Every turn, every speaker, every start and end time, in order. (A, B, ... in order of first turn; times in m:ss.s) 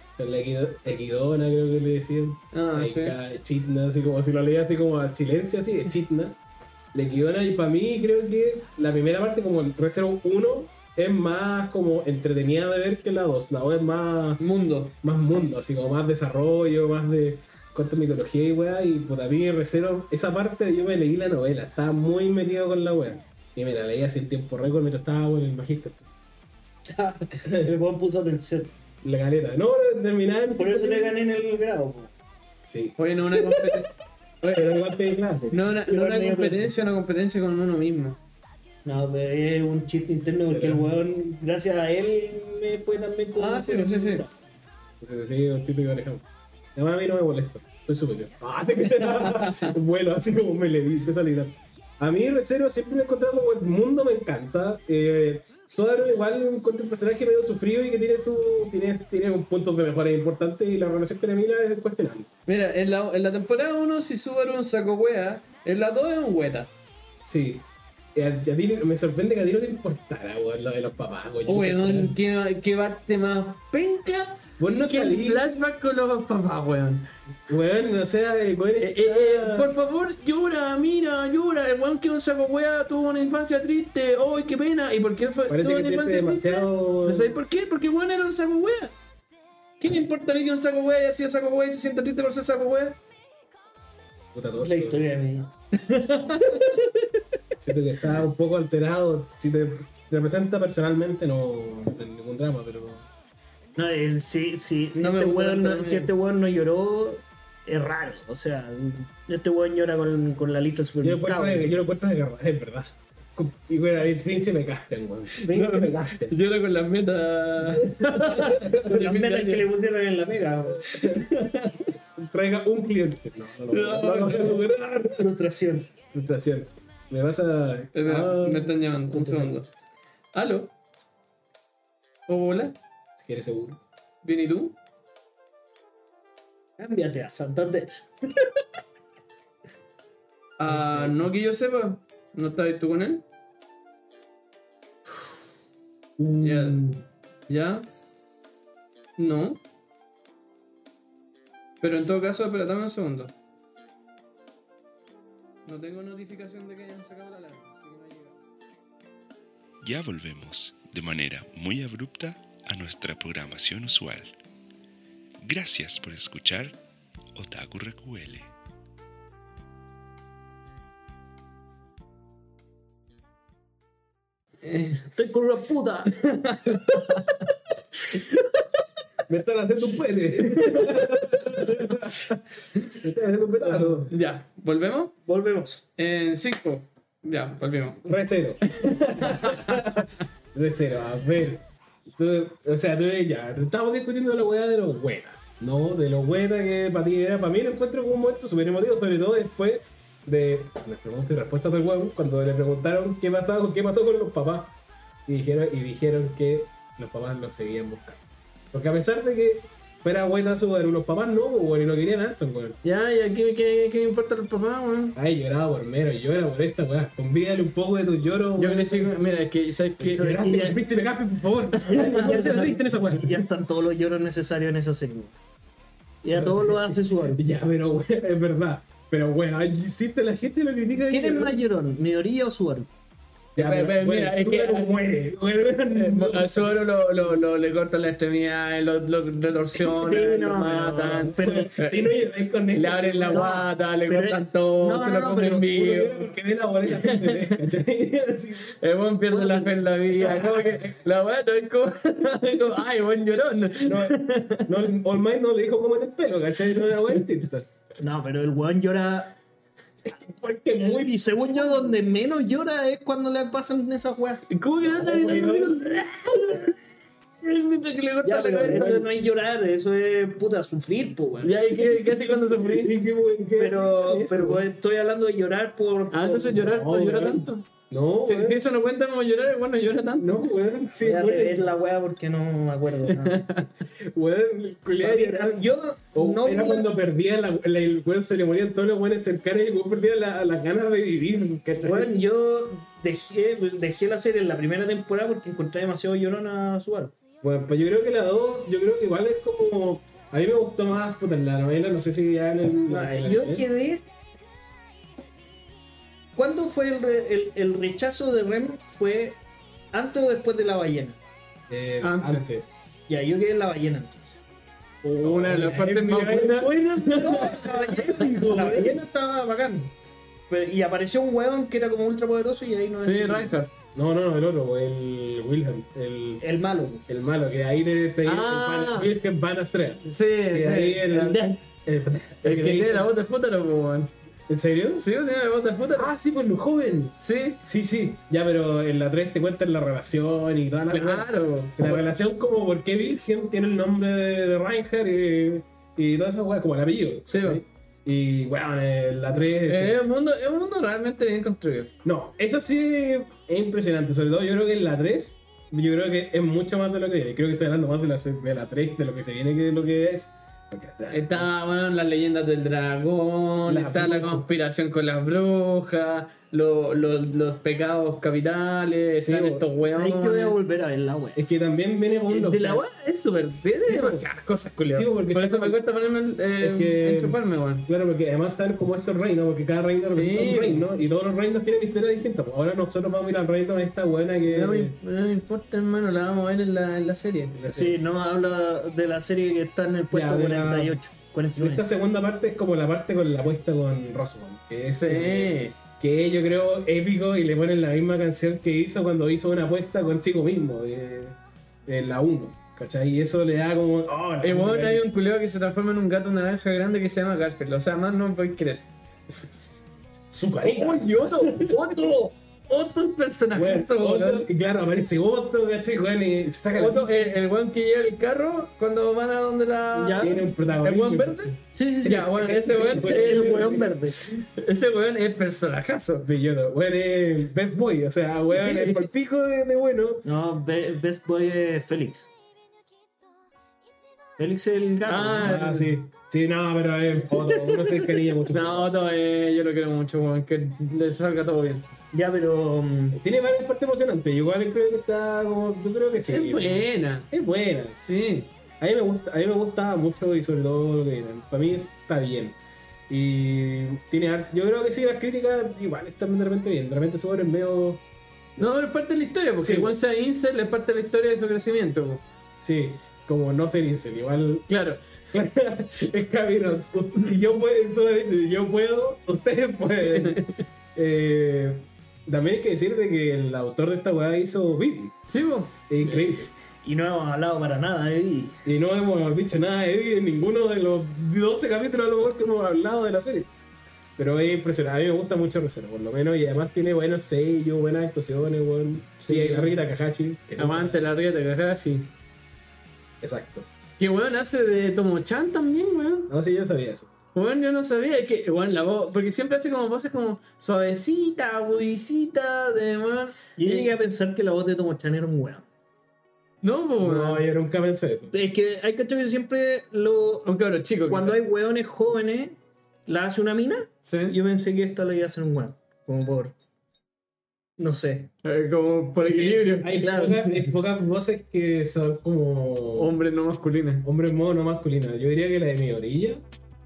0:00.2-0:06.4 A
0:02.5-0:03.2 B
0:06.9-0:14.4 A
0:14.4-0:14.9 B
0:15.0-0:26.1 A
0:26.9-0:28.7 C
0:29.0-0:31.2 A
0:30.6-0:32.1 C
0:32.6-0:33.0 A
0:33.0-0:33.9 B
0:34.4-0:34.7 B
0:34.5-0:35.6 A
0:35.5-0:38.2 B
0:35.8-0:36.7 C
0:38.8-0:44.3 C
0:40.5-0:41.0 A
0:43.4-0:44.2 B
0:45.0-1:02.3 A
0:49.0-0:49.7 B
1:02.4-1:06.7 B
1:07.2-1:12.1 A
1:11.4-1:17.1 B
1:14.6-1:15.5 A
1:17.5-1:19.7 A
1:18.8-1:28.9 B
1:25.5-1:27.4 A
1:29.8-1:33.0 B
1:34.3-1:35.0 A
1:34.6-1:36.7 C
1:36.2-1:36.9 B
1:37.6-1:43.0 A
1:43.8-1:51.7 C
1:44.9-1:46.1 B
1:51.0-1:56.4 A
1:55.4-1:59.7 B
1:57.8-1:58.7 A
1:58.4-2:01.0 C
2:01.0-2:01.8 B
2:02.2-2:05.3 A
2:03.7-2:04.6 B
2:05.2-2:05.9 C
2:06.1-2:08.7 A
2:07.9-2:09.7 B
2:09.1-2:09.8 C
2:10.3-2:10.7 B
2:12.3-2:12.8 B
2:13.2-2:13.8 A
2:14.2-2:14.8 B
2:16.8-2:18.1 C
2:20.6-2:23.2 B
2:20.6-2:21.2 A
2:26.2-2:27.0 A
2:26.4-2:26.8 B
2:27.5-2:27.8 B
2:29.2-2:29.6 B
2:31.8-2:33.3 B
2:35.6-2:38.4 B
2:39.8-2:44.3 D
2:45.4-2:46.8 D
2:47.3-2:48.5 D
2:54.6-2:55.0 B
2:55.0-2:56.2 C
2:56.2-2:57.4 B
2:58.0-2:58.5 B
2:59.3-3:02.4 A
3:00.4-3:01.1 B
3:03.0-3:04.1 A
3:04.1-3:05.1 B
3:05.2-3:05.8 C
3:06.0-3:10.0 B
3:08.1-3:24.7 A
3:25.3-3:28.2 A
3:28.7-3:32.8 A
3:32.8-3:35.2 B
3:35.1-3:39.1 A
3:38.6-3:40.7 B
3:40.0-3:43.4 A
3:40.2-3:40.8 C
3:41.8-3:45.4 C
3:46.2-3:47.4 C
3:46.3-3:51.6 A
3:51.1-3:52.9 C
3:53.5-3:56.8 A
3:53.6-3:55.0 B
3:55.9-4:02.0 B
3:59.9-4:01.7 C
4:01.0-4:03.5 A
4:02.7-4:06.2 B
4:03.3-4:05.8 C
4:05.7-4:08.7 A
4:06.9-4:07.6 B
4:08.8-4:14.7 B
4:09.3-4:09.7 C
4:10.1-4:11.0 A
4:13.8-4:17.6 A
4:16.8-4:17.2 B
4:18.0-4:19.4 C
4:20.0-4:21.2 A
4:20.8-4:24.4 C
4:24.5-4:26.7 B
4:24.8-4:26.3 A
4:27.4-4:29.0 B
4:28.2-4:31.6 C
4:28.7-4:29.0 A
4:31.4-4:32.9 B
4:31.7-4:34.6 A
4:33.6-4:36.7 C
4:36.1-4:37.7 B
4:36.6-4:38.6 A
4:38.2-4:40.5 B
4:40.2-4:41.7 A
4:41.0-4:43.4 C
4:43.1-4:43.7 B
4:44.0-4:52.2 A
4:45.0-4:46.9 C
4:51.8-4:57.1 C
4:57.4-5:03.6 A
5:02.9-5:04.0 C
5:06.4-5:09.4 C
5:09.9-5:11.2 C
5:11.7-5:12.7 A
5:12.0-5:12.4 B
5:13.1-5:14.4 C
5:15.0-5:19.0 A
5:15.2-5:17.9 B
5:17.2-5:19.9 C
5:20.5-5:23.5 C
5:23.0-5:23.7 B
5:23.9-5:26.4 A
5:26.4-5:27.0 C
5:27.1-5:33.1 A
5:28.2-5:29.1 B
5:30.0-5:31.6 B
5:32.4-5:34.1 B
5:34.5-5:35.0 A
5:35.0-5:36.1 B
5:35.9-5:50.0 A
5:37.2-5:37.6 B
5:40.9-5:42.1 B
5:47.3-5:47.6 B
5:49.6-5:51.9 B
5:52.0-6:01.5 A
6:01.1-6:10.6 B
6:03.7-6:04.5 A
6:09.2-6:09.6 A
6:09.8-6:11.4 C
6:11.4-6:12.8 A
6:12.3-6:17.8 B
6:13.8-6:14.2 A
6:14.9-6:15.8 A
6:16.6-6:25.0 A
6:20.1-6:20.9 B
6:24.5-6:27.6 B
6:27.5-6:28.0 A
6:27.7-6:31.8 C
6:30.1-6:31.0 A
6:31.6-6:45.0 A
6:35.0-6:35.7 B
6:44.4-6:48.8 B
6:50.3-6:52.0 A
6:51.0-6:54.5 B
6:53.5-6:57.1 A
6:56.7-7:06.3 B
6:59.9-7:00.4 C
7:00.2-7:01.5 A
7:01.7-7:04.4 C
7:02.3-7:03.8 A
7:06.2-7:10.2 A
7:08.6-7:09.0 C
7:10.2-7:12.3 C
7:14.4-7:15.7 C
7:15.0-7:15.9 B
7:15.4-7:18.9 A
7:18.4-7:21.9 B
7:22.1-7:23.2 C
7:23.1-7:28.0 A
7:26.3-7:27.3 B
7:28.0-7:28.5 B
7:28.8-7:32.6 A
7:33.1-7:38.0 A
7:38.6-7:42.2 B
7:39.6-7:39.9 A
7:42.6-7:44.7 A
7:44.7-7:45.0 B
7:45.3-7:55.2 A
7:50.1-7:50.6 B
7:55.3-7:56.3 B
7:55.9-7:56.5 A
7:56.8-7:58.6 C
7:58.6-8:03.5 A
8:04.2-8:11.0 A
8:09.2-8:09.7 B
8:10.6-8:12.1 B
8:13.2-8:13.7 A
8:14.0-8:16.3 B
8:16.3-8:17.1 A
8:17.3-8:23.9 B
8:23.6-8:25.6 C
8:26.6-8:27.4 B
8:27.0-8:28.3 A
8:28.3-8:30.5 C
8:30.4-8:31.4 B
8:31.1-8:36.5 C
8:34.0-8:34.4 B
8:37.8-8:38.3 C
8:38.4-8:39.9 B
8:39.2-8:43.1 A
8:39.9-8:40.7 C
8:43.0-8:44.1 B
8:44.0-8:46.4 A